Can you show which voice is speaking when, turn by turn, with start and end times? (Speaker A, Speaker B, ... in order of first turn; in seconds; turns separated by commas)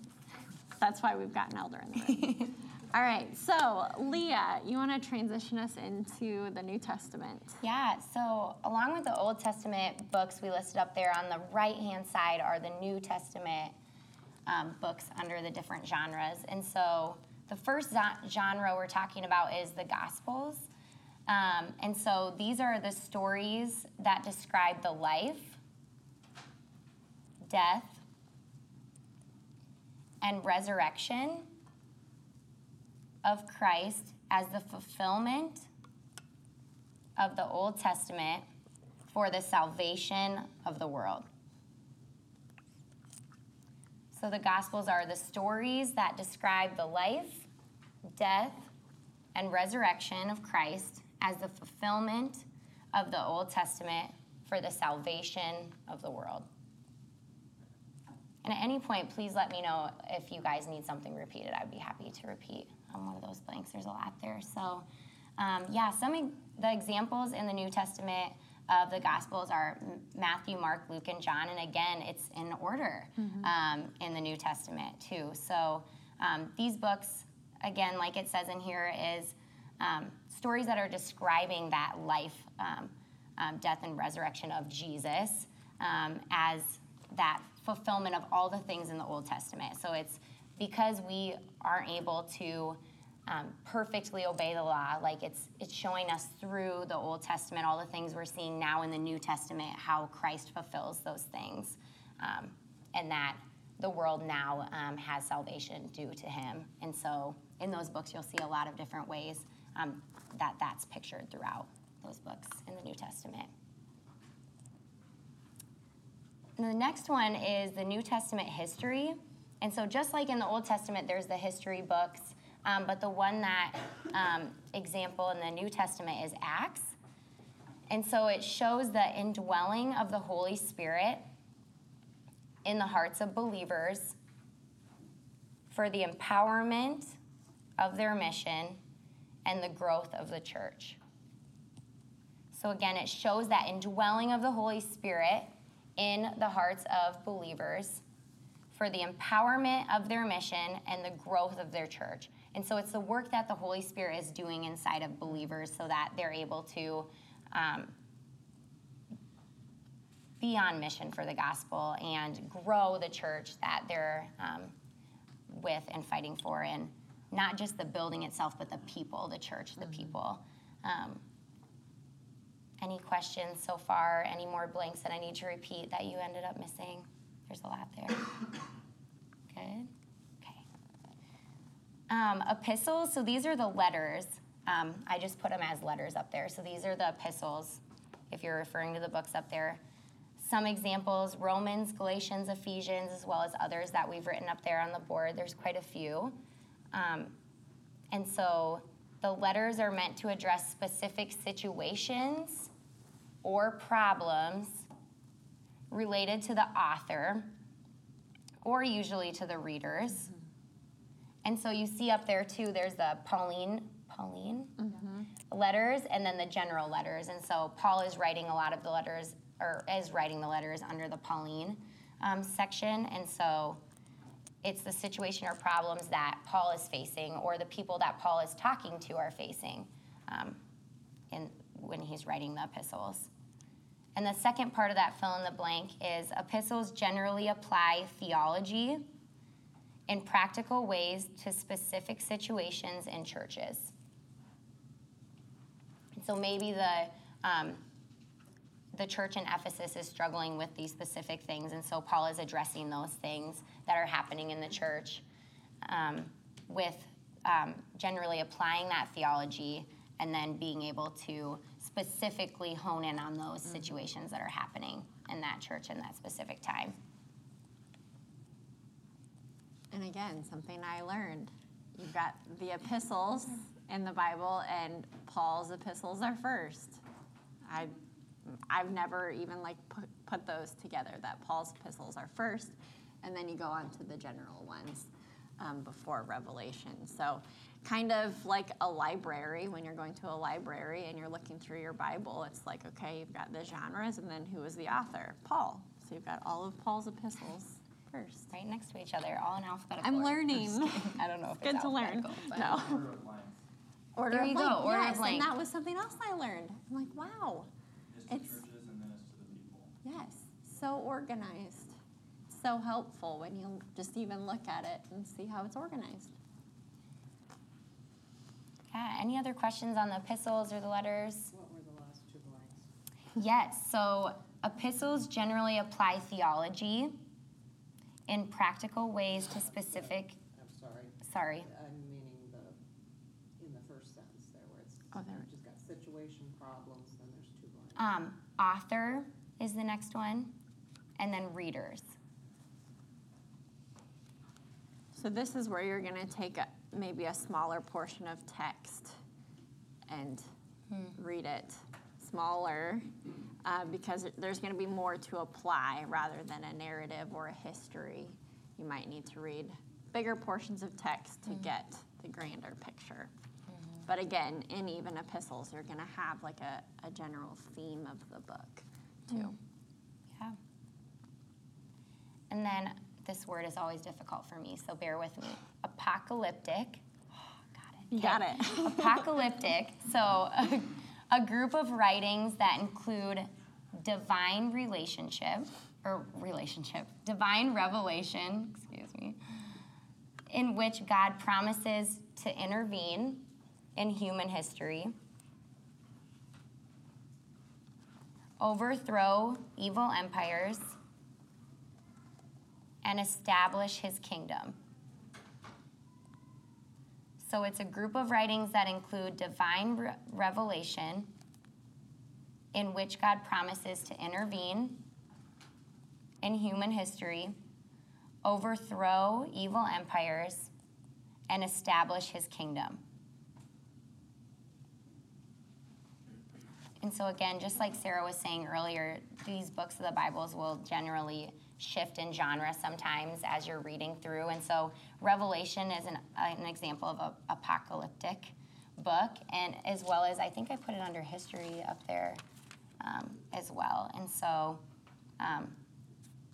Speaker A: 0.8-7.5, Speaker B: 7.6-13.7, Speaker B: 14.4-20.7, Speaker B: 21.3-25.6, Speaker B: 27.4-28.0, Speaker B: 30.2-31.5, Speaker B: 33.2-35.7, Speaker B: 37.2-38.5, Speaker B: 39.1-41.3, Speaker B: 44.1-47.5, Speaker B: 48.0-48.7, Speaker B: 49.3-56.5, Speaker B: 58.4-64.8, Speaker B: 65.4-113.5, Speaker B: 116.6-127.0, Speaker B: 127.9-131.2, Speaker B: 132.6-134.2, Speaker B: 135.7-137.2, Speaker B: 137.8-138.8, Speaker B: 139.4-141.0, Speaker B: 142.5-148.0, Speaker B: 148.7-157.9, Speaker B: 160.4-164.7, Speaker B: 165.5-171.2, Speaker B: 172.8-178.3, Speaker B: 179.5-179.9, Speaker B: 182.1-189.8, Speaker B: 190.4-196.4, Speaker B: 196.9-197.3, Speaker B: 198.1-202.7, Speaker B: 203.4-204.9, Speaker B: 205.9-207.5, Speaker B: 208.6-210.3, Speaker B: 211.4-214.8, Speaker A: 214.8-215.2, Speaker B: 215.4-223.8, Speaker B: 224.6-230.6, Speaker B: 231.3-233.3, Speaker B: 234.1-239.1, Speaker B: 240.1-243.9, Speaker B: 246.1-247.8, Speaker B: 248.9-255.2, Speaker B: 255.8-266.9, Speaker A: 269.9-277.0, Speaker A: 277.6-277.9, Speaker A: 278.4-285.1, Speaker A: 285.6-298.5, Speaker B: 298.5-302.9, Speaker A: 300.0-303.1, Speaker C: 302.5-303.6, Speaker A: 304.1-307.7, Speaker B: 304.3-305.5, Speaker C: 308.1-309.9, Speaker A: 308.3-308.6, Speaker A: 310.0-312.0, Speaker A: 312.5-316.3, Speaker B: 318.9-321.5, Speaker D: 321.5-322.9, Speaker B: 323.4-327.2, Speaker B: 328.3-330.4, Speaker D: 329.3-332.8, Speaker B: 331.2-331.7, Speaker D: 333.6-338.1, Speaker A: 335.1-335.5, Speaker B: 337.9-340.6, Speaker B: 341.2-342.1, Speaker A: 345.1-349.2, Speaker A: 350.1-350.5, Speaker A: 351.1-353.1, Speaker A: 353.6-363.3, Speaker A: 364.1-369.6, Speaker B: 369.3-369.6, Speaker B: 372.5-377.0, Speaker B: 377.7-389.7, Speaker A: 378.1-379.3, Speaker B: 390.5-395.1, Speaker B: 398.6-401.0, Speaker B: 403.0-404.8, Speaker B: 407.4-411.3, Speaker B: 412.7-415.1, Speaker B: 416.4-417.6, Speaker B: 418.4-420.7, Speaker B: 421.5-423.0, Speaker B: 427.0-442.4, Speaker B: 443.0-444.8, Speaker B: 445.4-445.8